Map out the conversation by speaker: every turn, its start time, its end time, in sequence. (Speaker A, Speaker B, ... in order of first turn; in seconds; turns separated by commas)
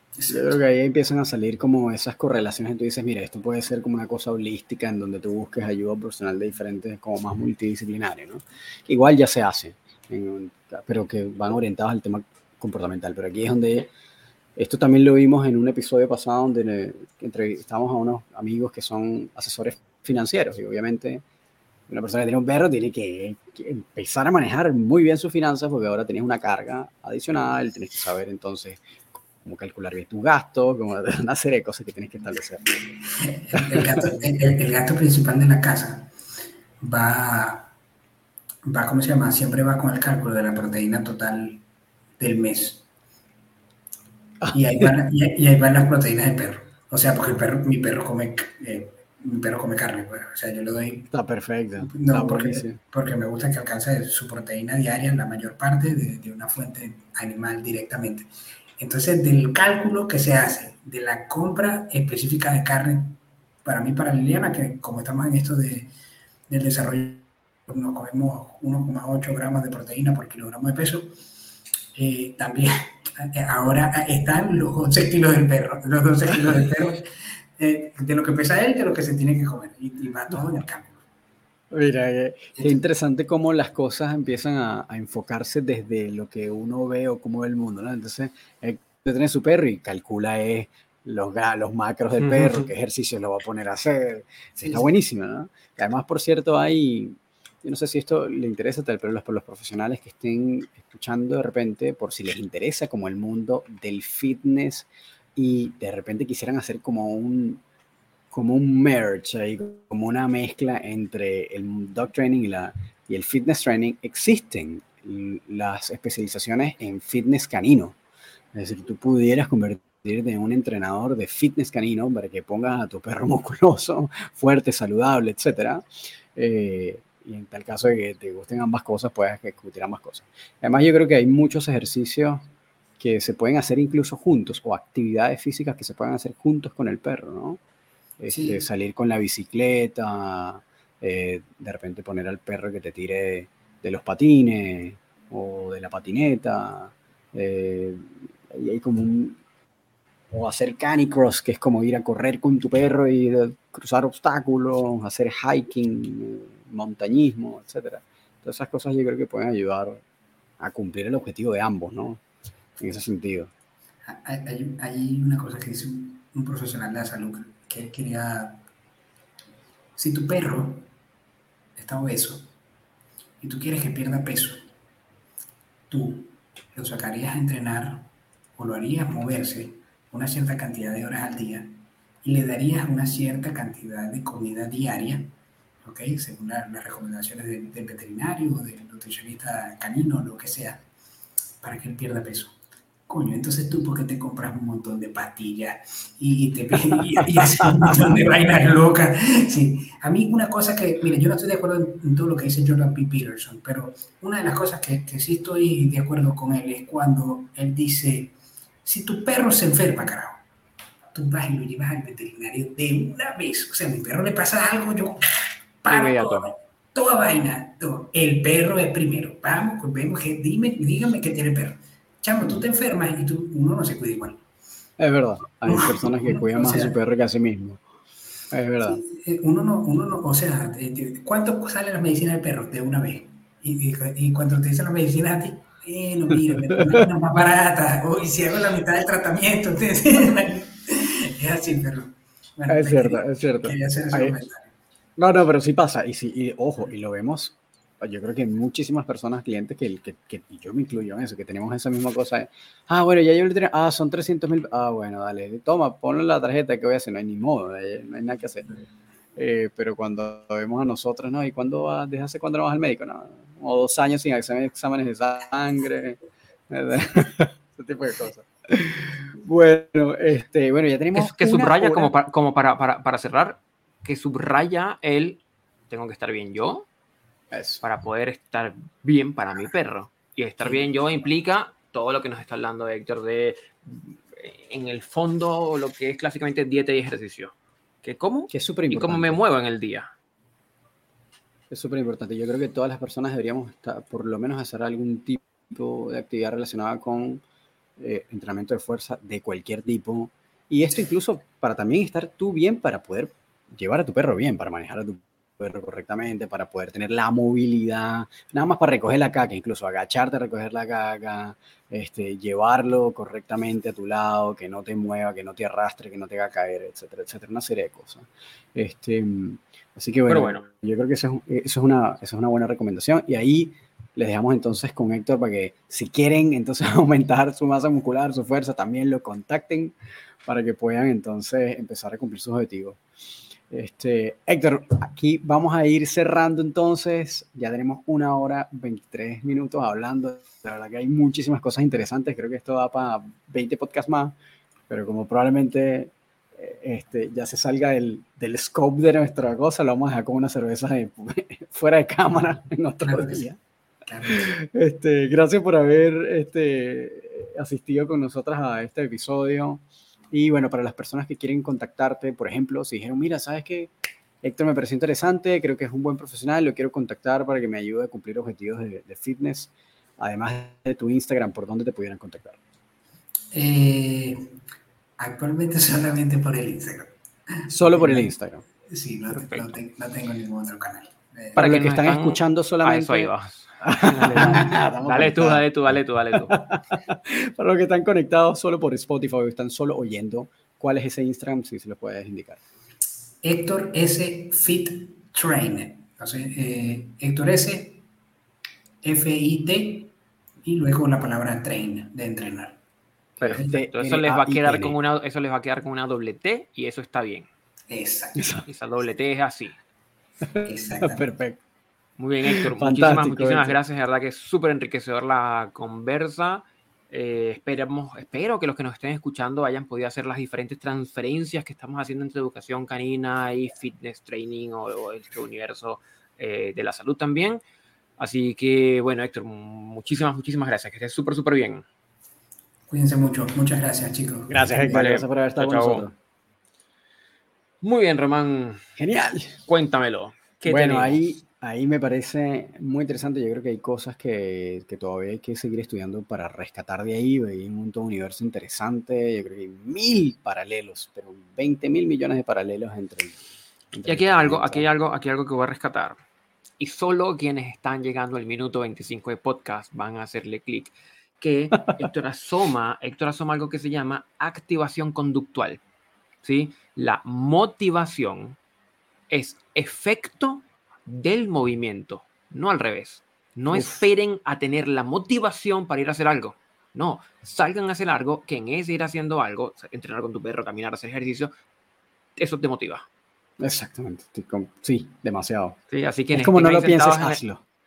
Speaker A: 0.1-0.5, Speaker B: 0.3-13.9, Speaker B: 14.6-21.2, Speaker B: 21.9-28.8, Speaker B: 29.3-32.9, Speaker A: 33.2-36.1, Speaker B: 33.5-34.1, Speaker A: 36.8-37.7, Speaker A: 38.6-41.6, Speaker A: 42.2-42.8, Speaker B: 44.4-44.9, Speaker A: 44.5-51.1, Speaker B: 51.1-52.8, Speaker A: 51.8-65.9, Speaker A: 66.5-71.1, Speaker A: 71.9-81.0, Speaker B: 81.7-107.6, Speaker A: 82.5-82.8, Speaker C: 92.2-92.7, Speaker B: 108.3-118.0, Speaker B: 118.5-132.4, Speaker B: 133.0-137.6, Speaker B: 138.2-149.4, Speaker A: 138.3-138.6, Speaker B: 150.3-160.0, Speaker B: 160.6-162.2, Speaker B: 162.8-163.5, Speaker A: 164.1-168.6, Speaker A: 169.9-170.9, Speaker A: 171.8-172.5, Speaker A: 173.4-174.6, Speaker A: 175.9-185.3, Speaker A: 185.8-190.8, Speaker A: 191.6-192.6, Speaker A: 193.1-210.4, Speaker B: 196.9-198.2, Speaker A: 211.1-224.4, Speaker C: 215.9-216.5, Speaker B: 225.0-227.8, Speaker A: 225.6-227.0, Speaker B: 228.5-229.0, Speaker A: 228.8-244.7, Speaker B: 236.5-237.1, Speaker B: 242.7-244.3, Speaker B: 245.2-258.7, Speaker B: 259.4-266.2, Speaker B: 266.7-272.1, Speaker C: 271.1-276.9, Speaker B: 277.5-277.8, Speaker C: 277.8-290.1, Speaker B: 288.5-289.4, Speaker B: 291.7-297.4, Speaker B: 298.0-329.9, Speaker C: 320.3-320.6, Speaker B: 330.4-333.0, Speaker B: 333.7-344.4, Speaker B: 344.9-353.6, Speaker A: 353.0-353.5, Speaker A: 354.0-354.5, Speaker B: 354.2-372.6, Speaker A: 373.5-374.6, Speaker A: 375.2-378.3, Speaker B: 377.7-378.6, Speaker A: 378.9-381.7, Speaker C: 379.3-379.7, Speaker C: 381.5-386.6, Speaker B: 381.6-392.6, Speaker A: 393.4-398.0, Speaker A: 399.0-400.1, Speaker A: 400.6-402.8, Speaker A: 403.4-403.7, Speaker B: 403.4-404.9, Speaker C: 403.4-407.5, Speaker A: 407.9-408.6, Speaker B: 408.4-408.6, Speaker C: 408.6-409.7, Speaker B: 410.6-411.6, Speaker A: 410.6-411.3, Speaker C: 412.2-427.6, Speaker B: 412.6-413.8, Speaker C: 428.2-431.8, Speaker A: 432.9-435.0, Speaker B: 434.5-436.1, Speaker C: 434.8-436.1, Speaker C: 437.8-438.9, Speaker B: 439.0-439.6, Speaker C: 439.6-441.2, Speaker B: 440.6-453.4, Speaker B: 453.9-454.9, Speaker C: 454.0-456.2, Speaker C: 456.8-465.8, Speaker C: 466.4-468.6, Speaker C: 469.3-481.5, Speaker B: 473.7-474.0, Speaker C: 482.4-483.1, Speaker B: 483.6-485.8, Speaker C: 485.9-487.4, Speaker B: 486.3-487.6